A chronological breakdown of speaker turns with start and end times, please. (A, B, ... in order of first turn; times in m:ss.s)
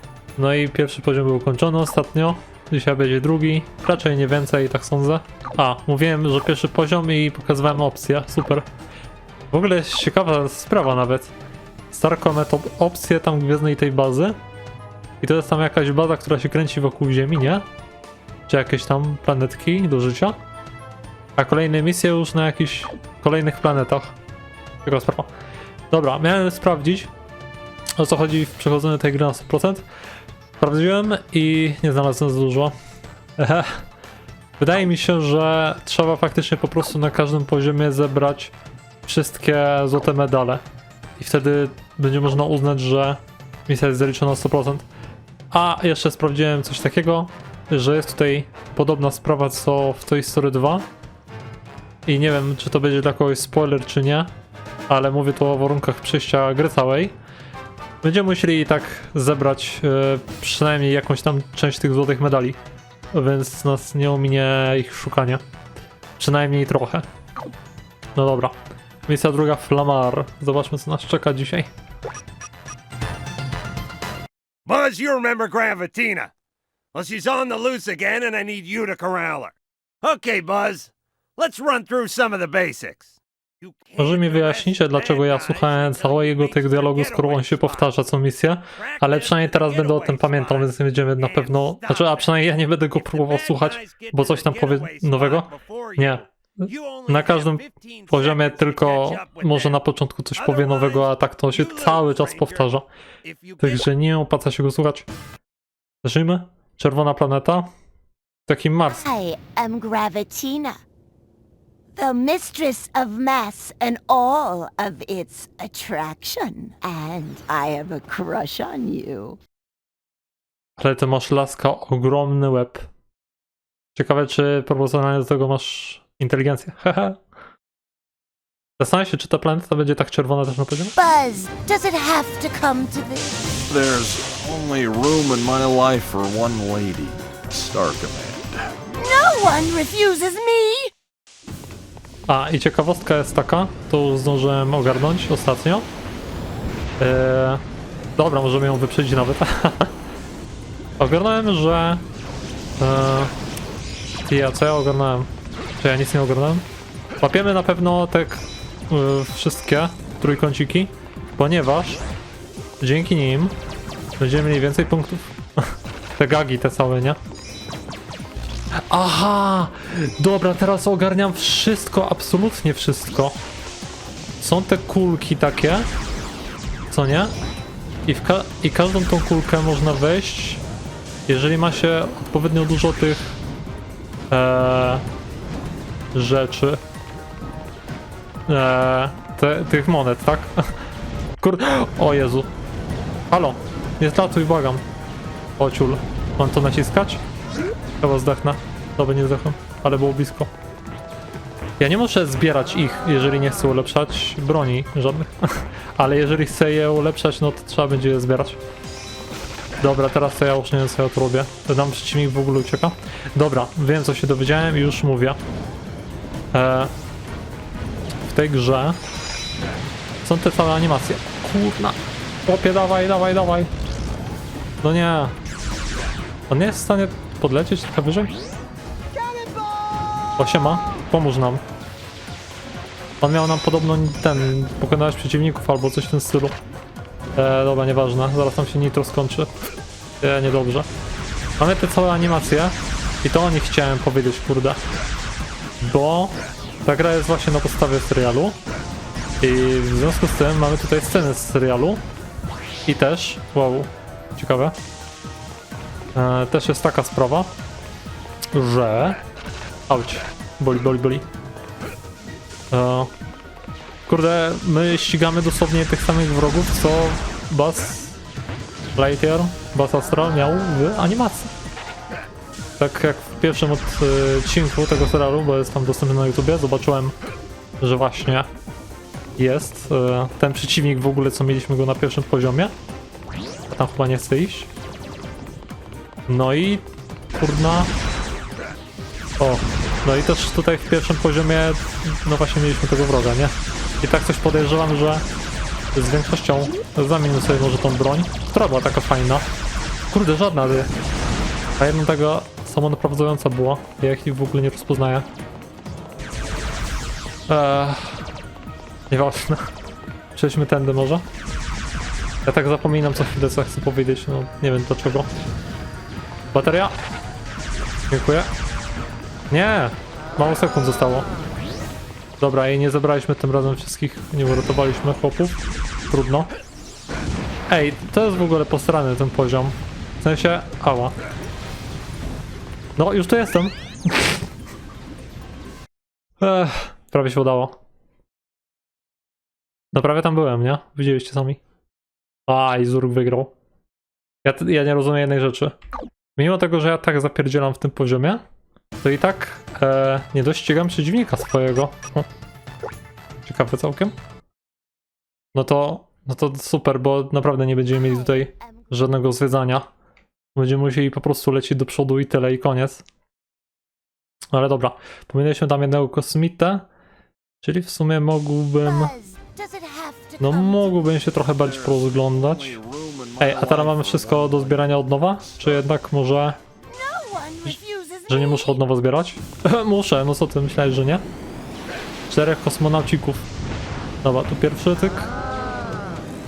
0:00.4-0:08.6 A
0:09.5-0:11.3 A
0:11.9-0:14.4 A
0:15.2-0:17.6 A
0:18.5-0:20.4 A
0:21.4-0:24.2 A
0:24.8-0:25.3 A
0:25.9-0:27.1 A
0:28.0-0:29.8 A
0:30.6-0:32.7 A
0:33.4-0:33.8 A
0:34.6-0:38.5 A
0:39.0-0:40.6 A
0:41.2-0:44.8 A
0:45.5-0:50.9 A
0:52.0-0:54.3 A
0:54.9-0:57.1 A
0:58.0-1:02.6 A
1:03.1-1:05.4 A
1:06.2-1:07.0 A
1:08.2-1:08.6 A
1:09.1-1:11.7 A
1:14.6-1:16.3 B
1:16.9-1:23.1 B
1:23.6-1:27.8 B
1:24.0-1:42.9 A
1:28.8-1:32.2 B
1:33.0-1:39.8 B
1:40.4-1:42.6 B
1:43.2-1:43.8 B
1:43.6-1:45.1 A
1:46.0-1:47.7 A
1:48.5-1:49.1 A
1:48.9-1:50.8 C
1:51.9-1:59.4 C
2:00.8-2:02.9 A
2:04.0-2:07.2 A
2:08.8-2:11.0 A
2:11.0-2:13.4 C
2:13.7-2:18.8 D
2:19.0-2:20.9 C
2:22.3-2:25.9 A
2:27.0-2:27.6 A
2:28.2-2:29.9 A
2:31.0-2:32.0 A
2:32.8-2:33.3 A
2:34.2-2:36.6 A
2:37.2-2:42.0 A
2:42.8-2:43.6 A
2:44.2-2:47.2 A
2:48.9-2:53.4 A
2:54.4-2:55.9 A
2:56.9-2:57.3 A
2:58.0-3:00.6 A
3:01.3-3:03.4 A
3:04.3-3:05.0 A
3:06.1-3:06.8 A
3:08.5-3:10.6 A
3:11.4-3:12.5 A
3:13.3-3:14.8 A
3:15.6-3:17.2 A
3:18.0-3:20.5 A
3:21.8-3:28.6 A
3:29.8-3:35.4 A
3:36.5-3:36.9 A
3:38.2-3:39.0 A
3:40.2-3:43.7 A
3:44.8-3:45.3 A
3:46.5-3:48.3 A
3:50.4-3:51.6 A
3:53.2-3:56.5 A
3:57.4-3:59.5 A
4:00.2-4:00.9 A
4:01.6-4:04.8 A
4:05.8-4:08.6 A
4:09.4-4:12.0 A
4:12.8-4:14.8 A
4:16.1-4:17.5 A
4:18.5-4:19.2 A
4:19.9-4:21.2 A
4:22.7-4:23.1 A
4:24.1-4:28.2 A
4:29.0-4:31.5 A
4:32.8-4:37.1 A
4:37.8-4:38.5 A
4:39.4-4:42.7 A
4:43.7-4:44.7 A
4:46.3-4:47.9 A
4:49.4-4:55.2 A
4:55.9-4:59.4 A
5:00.1-5:00.9 A
5:01.8-5:05.2 A
5:07.5-5:08.3 A
5:09.1-5:09.7 A
5:10.3-5:11.2 A
5:12.4-5:15.3 A
5:16.5-5:16.9 A
5:18.1-5:18.5 A
5:19.5-5:21.3 A
5:22.4-5:26.5 A
5:27.7-5:31.1 A
5:33.0-5:34.4 A
5:36.4-5:37.8 A
5:39.9-5:41.6 A
5:42.5-5:43.5 A
5:44.4-5:45.8 A
5:46.4-5:48.4 A
5:49.0-5:52.2 A
5:53.4-5:54.1 A
5:55.5-5:59.9 A
5:57.9-5:58.9 C
6:00.5-6:03.0 A
6:04.5-6:06.9 A
6:07.6-6:09.1 A
6:08.8-6:11.2 C
6:10.4-6:12.8 A
6:11.5-6:15.7 D
6:13.4-6:16.6 A
6:16.9-6:18.8 C
6:18.3-6:21.2 A
6:22.3-6:23.5 A
6:24.2-6:25.3 A